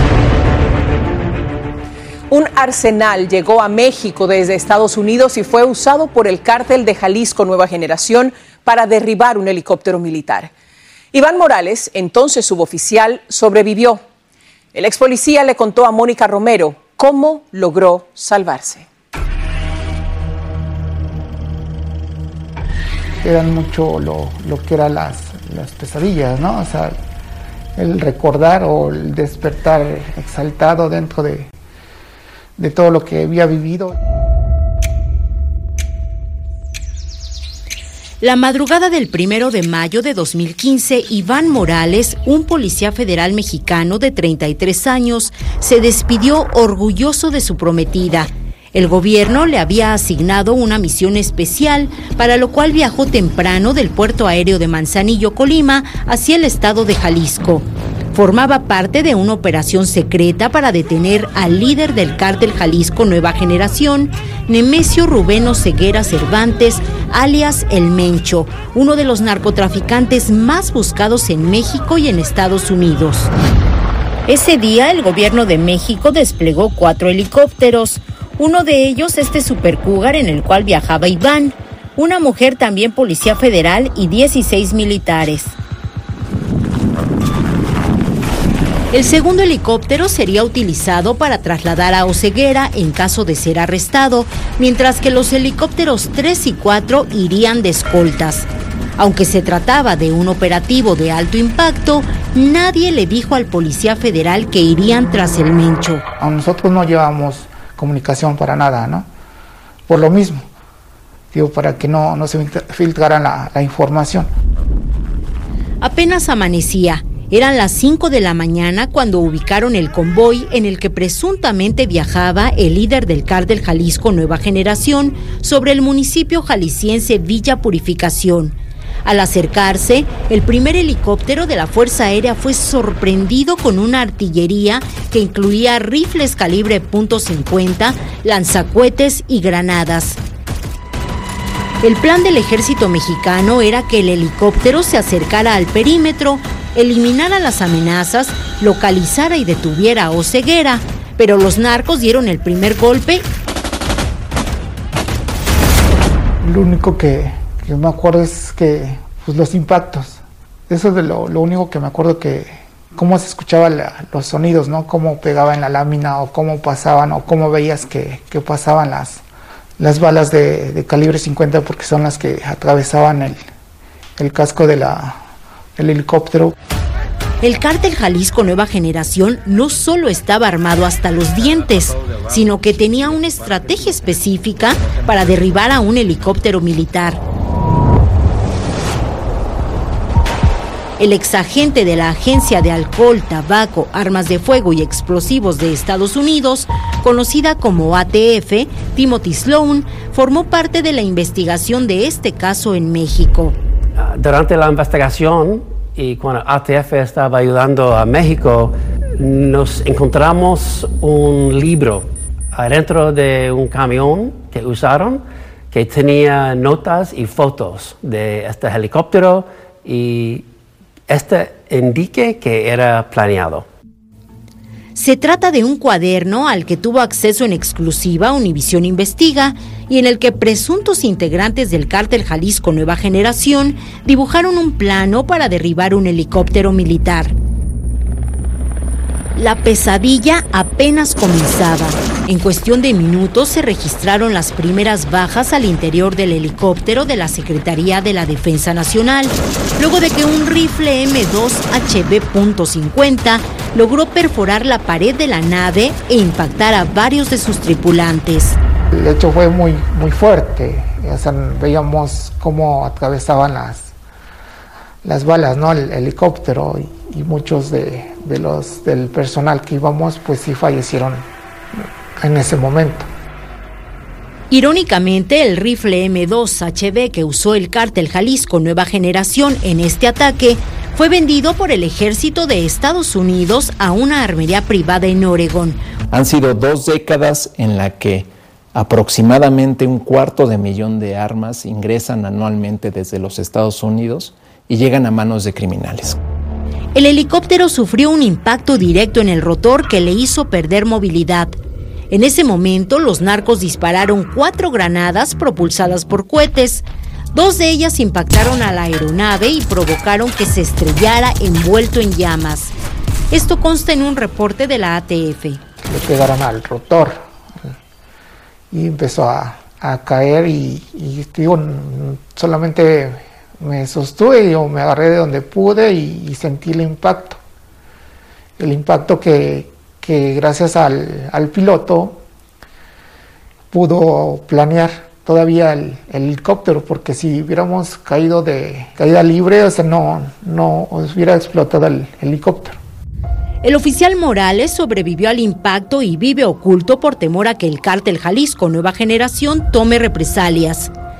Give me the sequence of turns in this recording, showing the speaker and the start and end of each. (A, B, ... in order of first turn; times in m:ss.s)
0:02.3-0:10.5 A
0:11.1-0:14.0 A
0:14.7-0:18.8 A
0:23.2-0:27.0 B
0:27.8-0:31.5 B
0:32.6-0:34.0 B
0:38.2-1:13.3 C
1:14.3-1:25.6 C
1:28.9-1:46.0 C
1:46.2-1:49.1 B
1:49.9-1:50.4 B
1:51.3-1:54.3 B
1:55.8-2:20.2 C
2:21.8-2:33.3 C
2:36.4-2:49.2 B
2:49.8-2:53.4 B
2:54.2-2:55.2 B
2:55.8-2:56.5 B
2:57.4-3:07.2 C
3:11.0-3:23.6 C
3:24.0-3:40.4 D
3:41.1-3:43.7 D
3:44.9-3:57.3 C
3:59.4-4:18.6 C
4:18.9-4:23.9 B
4:25.0-4:33.1 B
4:34.5-4:45.8 C
4:46.1-4:56.2 E
4:56.9-5:01.6 C
5:02.1-5:12.7 C
5:13.3-5:15.6 C
5:15.8-5:17.2 B
5:18.7-5:27.4 B
5:28.6-5:32.2 B
5:33.7-5:42.8 B
5:43.6-5:50.9 C